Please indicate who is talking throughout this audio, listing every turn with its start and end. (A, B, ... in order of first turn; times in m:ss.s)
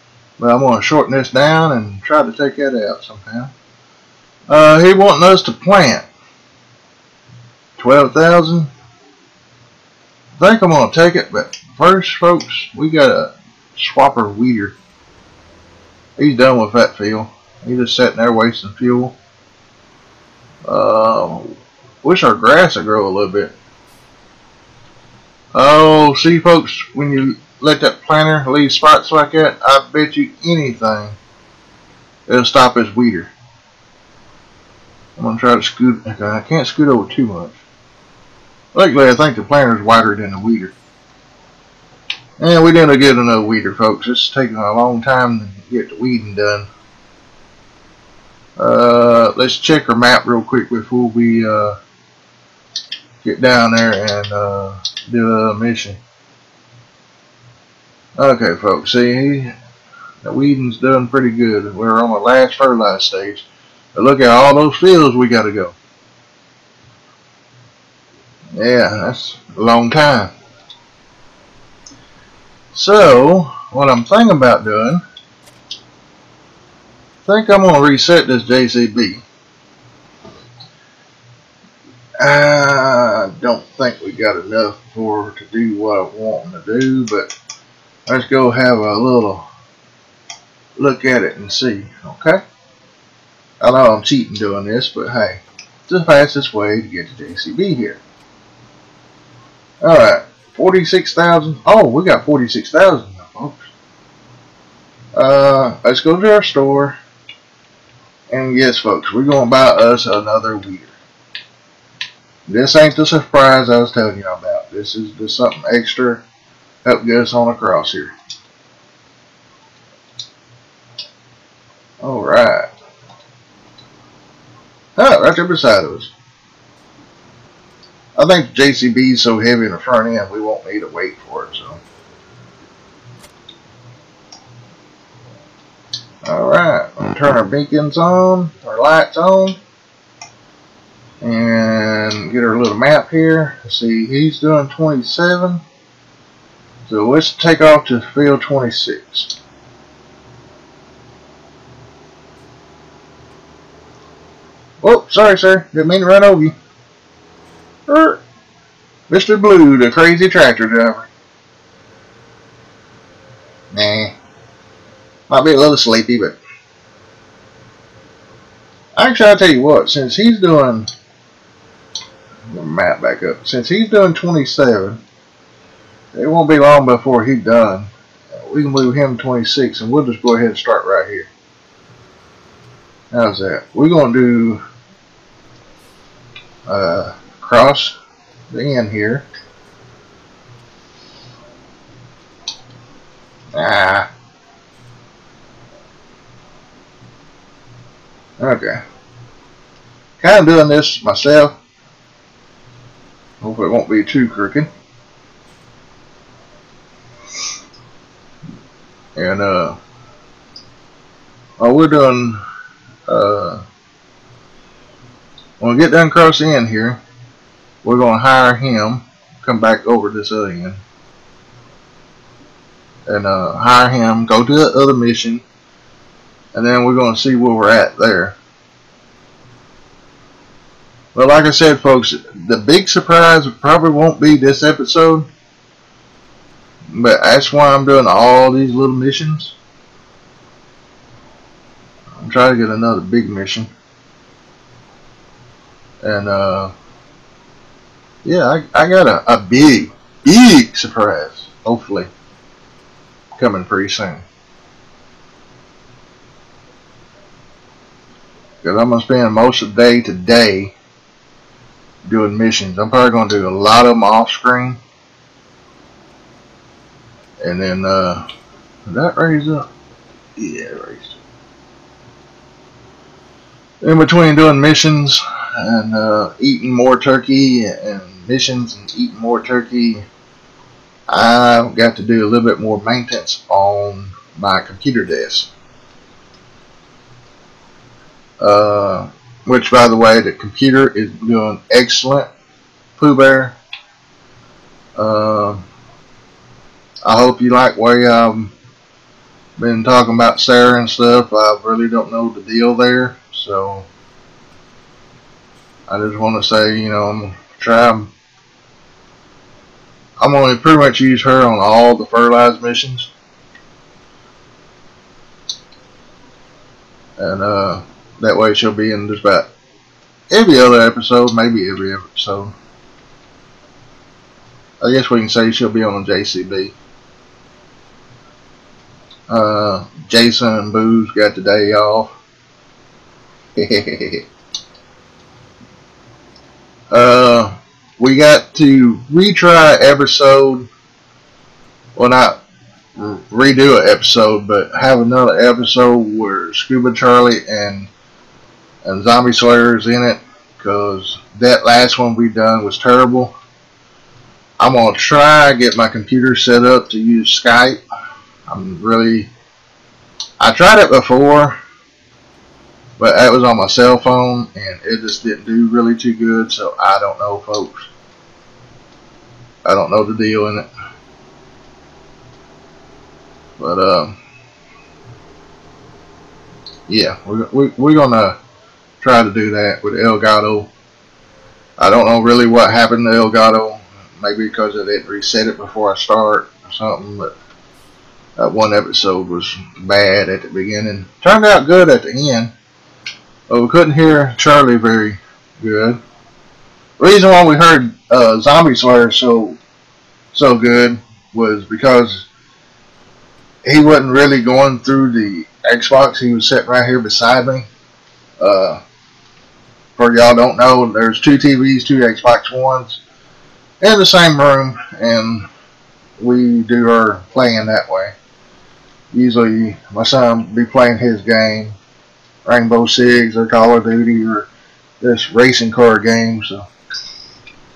0:00.4-0:03.5 A
0:04.5-0:06.0 A
0:07.8-0:08.7 A
0:10.4-0:14.8 A
0:16.2-0:19.2 A
0:20.6-0:23.5 A
0:25.5-0:31.2 A
0:32.3-0:33.3 A
0:35.2-0:37.6 A
0:38.7-0:40.7 A
0:42.4-0:46.7 A
0:48.6-0:51.8 A
0:53.2-0:56.0 A
0:58.2-0:59.5 A
1:00.2-1:05.8 A
1:08.5-1:10.3 A
1:12.7-1:15.0 A
1:17.2-1:19.2 A
1:22.2-1:27.3 A
1:28.1-1:29.5 A
1:30.8-1:32.4 A
1:33.6-1:38.0 A
1:39.8-1:43.7 A
1:45.1-1:47.0 A
1:48.3-1:51.0 A
1:52.5-1:56.2 A
1:56.8-1:58.1 A
2:02.0-2:02.7 A
2:05.0-2:06.1 A
2:08.2-2:11.8 A
2:16.2-2:19.6 A
2:21.2-2:25.6 A
2:26.9-2:29.3 A
2:34.8-2:36.5 A
2:37.9-2:38.2 A
2:39.1-2:41.1 A
2:43.7-2:44.1 A
2:45.3-2:46.4 A
2:49.0-2:50.9 A
2:52.5-2:55.0 A
2:56.1-3:01.3 A
3:03.1-3:04.6 A
3:06.6-3:08.0 A
3:08.5-3:09.2 A
3:13.5-3:14.1 A
3:18.4-3:18.8 A
3:20.2-3:21.6 A
3:23.4-3:24.7 A
3:29.2-3:29.8 A
3:31.6-3:32.4 A
3:33.1-3:33.6 A
3:35.6-3:37.0 A
3:37.8-3:40.8 A
3:43.0-3:45.4 A
3:46.5-3:48.4 A
3:51.1-3:55.3 A
3:56.9-3:59.6 A
4:02.2-4:03.7 A
4:06.0-4:06.7 A
4:08.2-4:12.1 A
4:13.4-4:14.2 A
4:18.6-4:20.8 A
4:22.0-4:24.8 A
4:27.4-4:28.2 A
4:28.9-4:29.7 A
4:30.4-4:31.2 A
4:33.8-4:40.0 A
4:41.1-4:45.5 A
4:48.4-4:52.3 A
4:53.0-4:53.6 A
4:55.0-4:55.6 A
4:57.0-4:58.5 A
4:59.6-5:03.9 A
5:05.9-5:08.1 A
5:10.2-5:13.1 A
5:17.2-5:19.5 A
5:20.3-5:22.5 A
5:24.8-5:26.8 A
5:29.3-5:32.1 A
5:33.6-5:34.2 A
5:36.9-5:40.7 A
5:42.0-5:42.4 A
5:43.0-5:47.9 A
5:48.8-5:53.3 A
5:54.6-5:57.8 A
5:58.5-5:59.3 A
6:00.4-6:01.6 A
6:03.0-6:07.9 A
6:09.6-6:10.7 A
6:13.6-6:14.1 A
6:16.9-6:18.4 A
6:19.0-6:20.7 A
6:21.8-6:27.3 A
6:28.4-6:32.5 A
6:33.5-6:36.0 A
6:37.0-6:39.6 A
6:40.3-6:42.3 A
6:43.6-6:47.7 A
6:48.4-6:48.8 A
6:50.0-6:53.0 A
6:53.8-6:55.5 A
6:56.2-6:58.1 A
6:59.1-7:01.8 A
7:02.4-7:04.5 A
7:05.0-7:06.7 A